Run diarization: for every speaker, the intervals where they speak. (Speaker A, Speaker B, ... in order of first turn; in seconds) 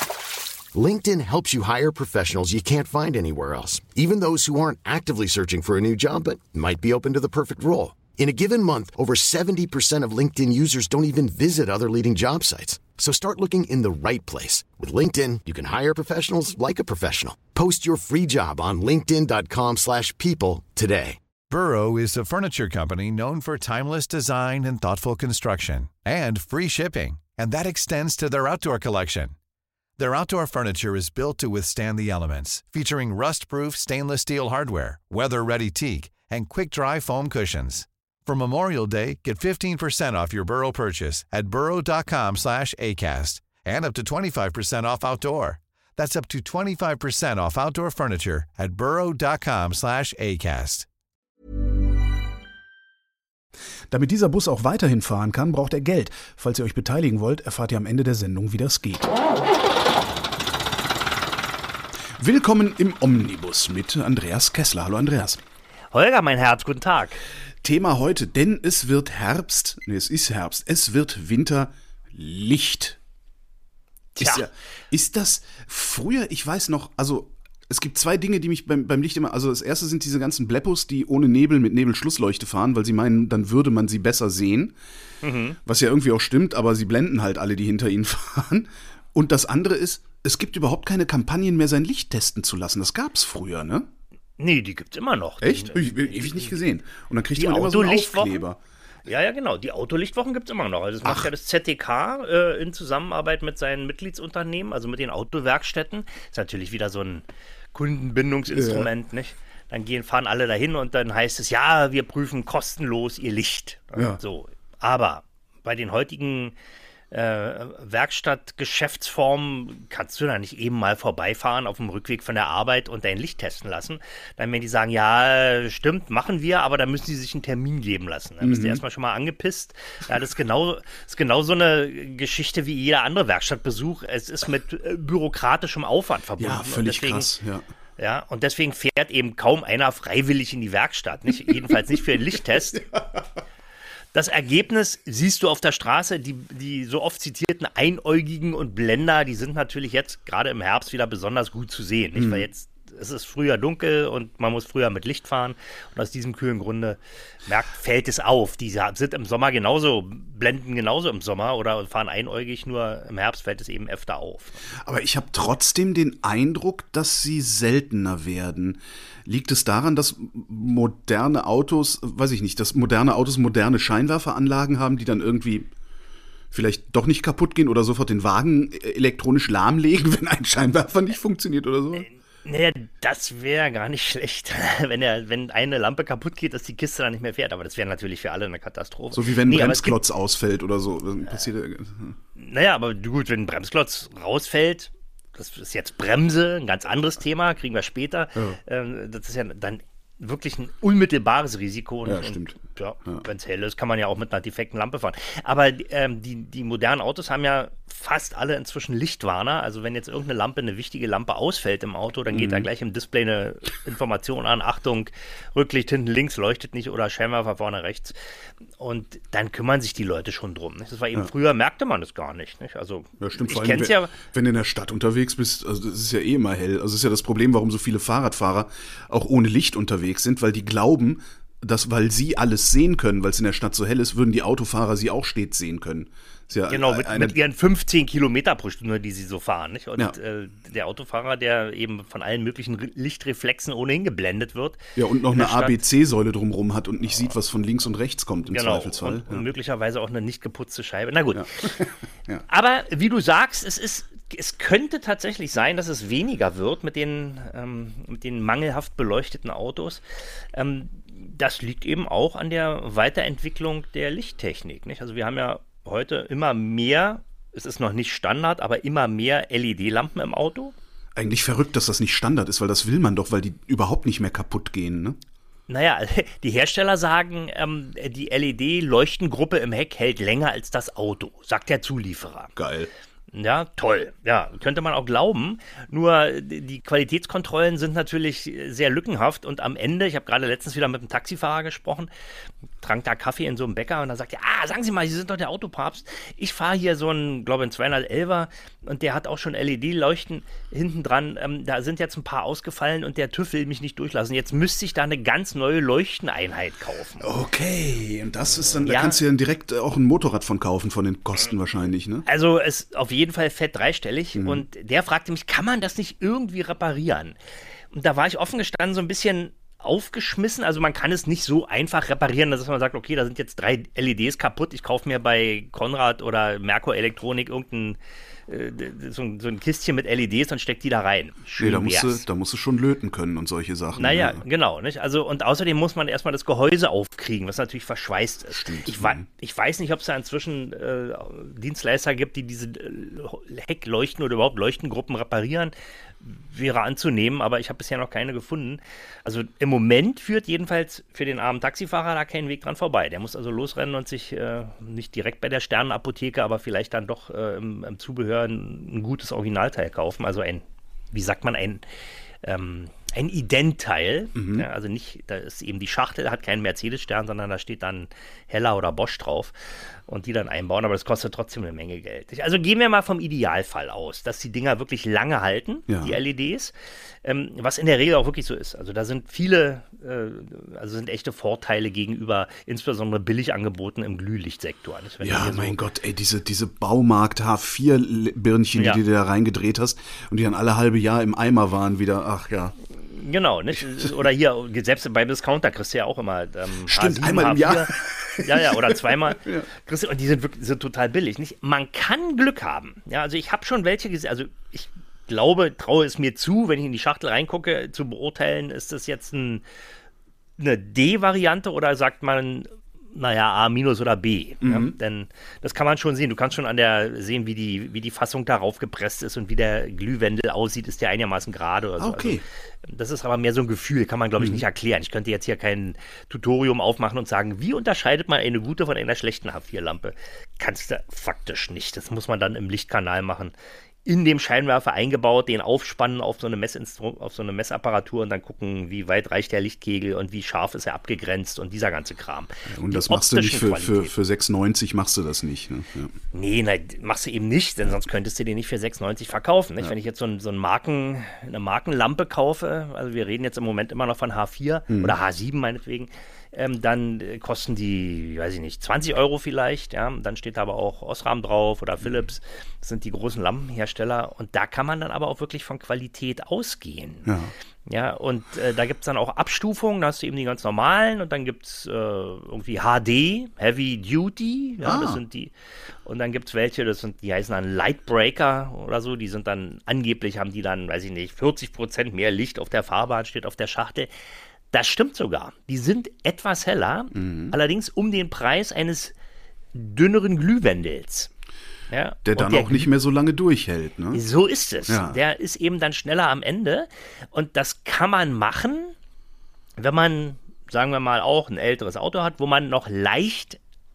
Speaker A: 0.7-21.2
Speaker B: 21.5-29.3, 30.0-50.9
Speaker C: 53.9-59.1, 62.2-65.4, 67.6-73.0, 74.2-84.7, 85.7-93.9, 95.4-98.6, 101.0-101.3, 108.5-108.9, 113.9-114.2, 128.4-128.8, 136.4-137.6, 142.7-143.2, 152.2-152.5, 164.8-175.7, 176.5-182.1, 189.1-192.2, 202.0-203.2, 212.3-212.7, 223.2-237.4, 244.9-249.5, 251.3-252.4, 271.1-275.2, 282.6-282.9, 307.2-312.2, 314.3-314.6, 331.6-334.4, 338.5-339.2, 364.3-364.7, 375.9-376.2, 385.2-392.7, 396.9-399.7, 414.6-414.9, 422.0-422.4, 442.7-446.1, 467.2-467.5, 474.8-475.2, 487.1-487.5, 492.2-494.2, 494.9-495.2
Speaker D: 65.9-67.2, 74.2-74.4, 85.2-85.6, 94.4-96.5, 97.3-98.4, 99.1-116.5, 117.1-137.3, 138.0-142.8, 144.1-164.6, 182.1-190.0, 192.4-218.1, 218.8-224.2, 236.7-244.8, 245.3-245.8, 248.5-251.8, 252.5-260.0, 260.5-270.7, 275.7-282.5, 283.3-292.1, 292.8-307.2, 308.8-309.2, 312.2-317.4, 317.9-332.2, 333.9-361.8, 362.4-376.7, 377.2-385.8, 393.0-409.6, 410.6-433.5, 434.0-444.1, 446.3-467.3, 467.9-475.5, 476.0-484.1, 484.7-489.1, 489.7-491.3, 491.9-492.9, 494.1-498.9, 499.8-503.6